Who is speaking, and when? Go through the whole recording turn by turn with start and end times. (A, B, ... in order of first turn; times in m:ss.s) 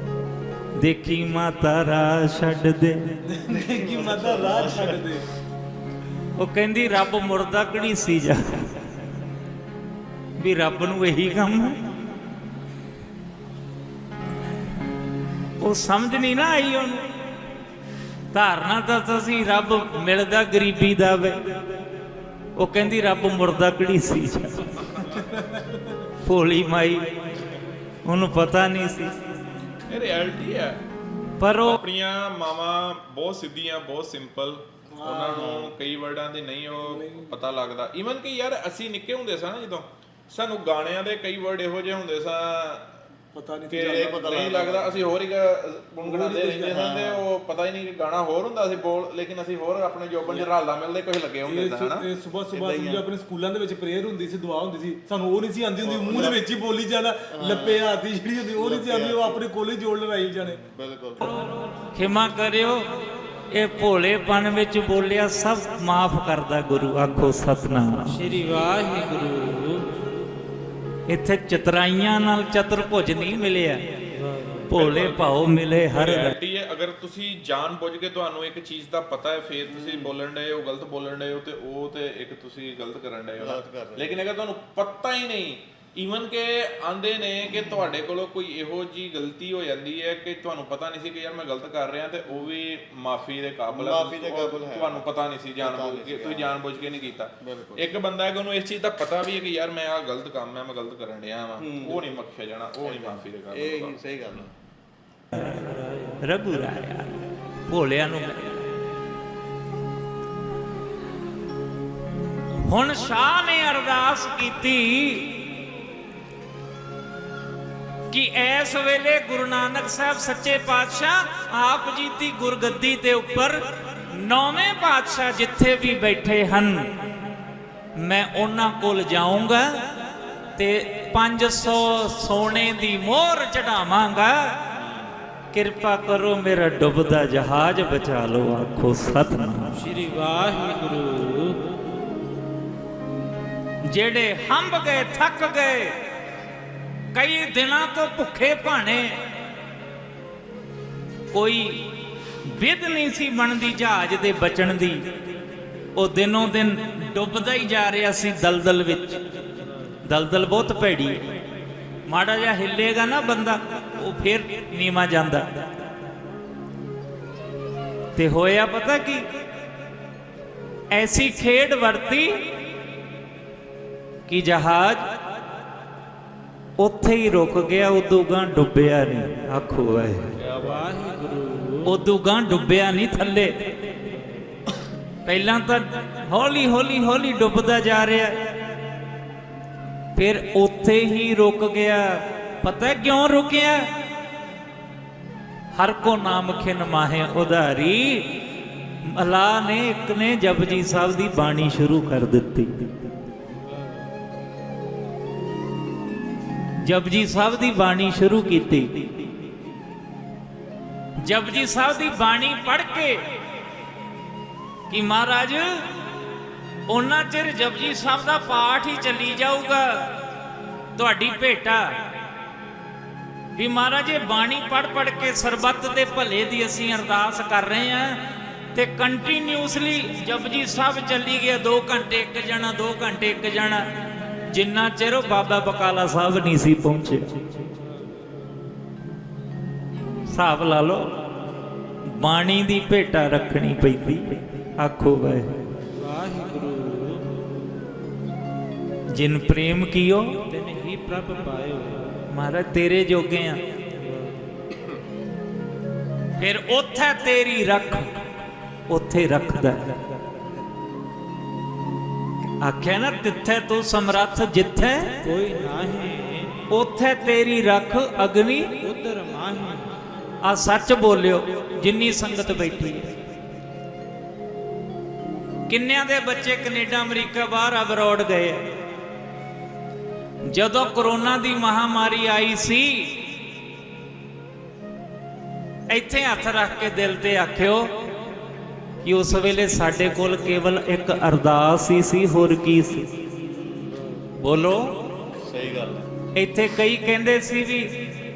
0:00.8-0:03.0 A
0:03.2-0:05.2 B
0:03.5-0:05.1 C
0:06.4-0:08.8 A
0:10.4-0:11.8 A
0:15.6-0:17.1 A
0:18.3-0:21.4 A
0:22.6-0:25.0 A
0:25.1-0:26.1 B
0:26.2-0:27.1 A
0:28.0-0:29.1 A
0:29.9-0:30.8 D
0:31.4-0:31.8 A
0:31.6-0:42.9 D
0:34.9-0:35.6 B
0:35.3-0:35.7 C
0:36.8-0:37.3 B
0:43.3-0:44.3 B
0:43.7-0:52.1 D
0:43.8-0:45.0 C
0:46.0-0:46.7 B
0:46.6-0:47.2 C
0:51.4-1:00.6 B
0:52.5-0:53.1 C
0:55.8-0:56.4 C
0:57.3-0:57.8 C
0:58.6-0:59.4 C
1:00.5-1:01.3 C
1:01.9-1:02.9 A
1:03.5-1:08.2 A
1:08.1-1:09.9 E
1:11.1-1:13.8 A
1:14.2-1:14.7 E
1:14.7-1:16.4 A
1:14.8-1:44.5 D
1:19.7-1:20.1 C
1:23.4-1:24.2 C
1:33.7-1:35.1 C
1:35.6-1:36.6 C
1:37.4-1:37.8 C
1:41.6-1:42.1 C
1:42.8-1:44.5 C
1:45.3-1:48.6 A
1:52.6-1:55.4 A
1:58.1-2:06.9 A
2:08.0-2:09.9 A
2:10.6-2:14.6 A
2:14.7-2:15.2 D
2:15.5-2:19.8 A
2:19.8-2:21.6 E
2:23.8-2:26.0 A
2:27.1-2:29.1 A
2:31.3-2:31.9 A
2:32.4-2:35.1 A
2:35.9-2:39.2 A
2:40.0-2:41.2 A
2:42.1-2:45.6 A
2:48.2-2:49.3 A
2:50.9-2:52.5 A
2:54.3-2:55.1 A
2:56.8-3:00.3 A
3:00.4-3:00.8 C
3:00.6-3:01.9 E
3:01.8-3:03.6 A
3:05.2-3:08.8 A
3:10.1-3:13.9 A
3:15.8-3:18.4 A
3:19.1-3:22.9 A
3:26.8-3:29.1 A
3:31.2-3:33.2 A
3:34.9-3:35.8 A
3:36.9-3:40.1 A
3:41.0-3:41.9 A
3:43.6-3:48.2 A
3:48.7-3:53.8 A
3:54.5-3:57.3 A
4:00.3-4:01.2 A
4:02.1-4:05.5 A
4:06.0-4:07.3 E
4:09.1-4:10.4 A
4:10.5-4:12.2 E
4:12.3-4:13.6 A
4:16.4-4:18.2 A
4:18.9-4:19.9 A
4:22.6-4:25.2 A
4:25.2-4:26.6 E
4:26.7-4:28.8 A
4:28.8-4:29.9 E
4:30.4-4:33.1 A
4:35.7-4:38.7 A
4:40.5-4:43.2 A
4:45.9-4:47.9 A
4:49.0-4:53.1 A
4:54.4-4:54.9 A
4:55.4-4:56.1 C
4:56.4-4:57.9 A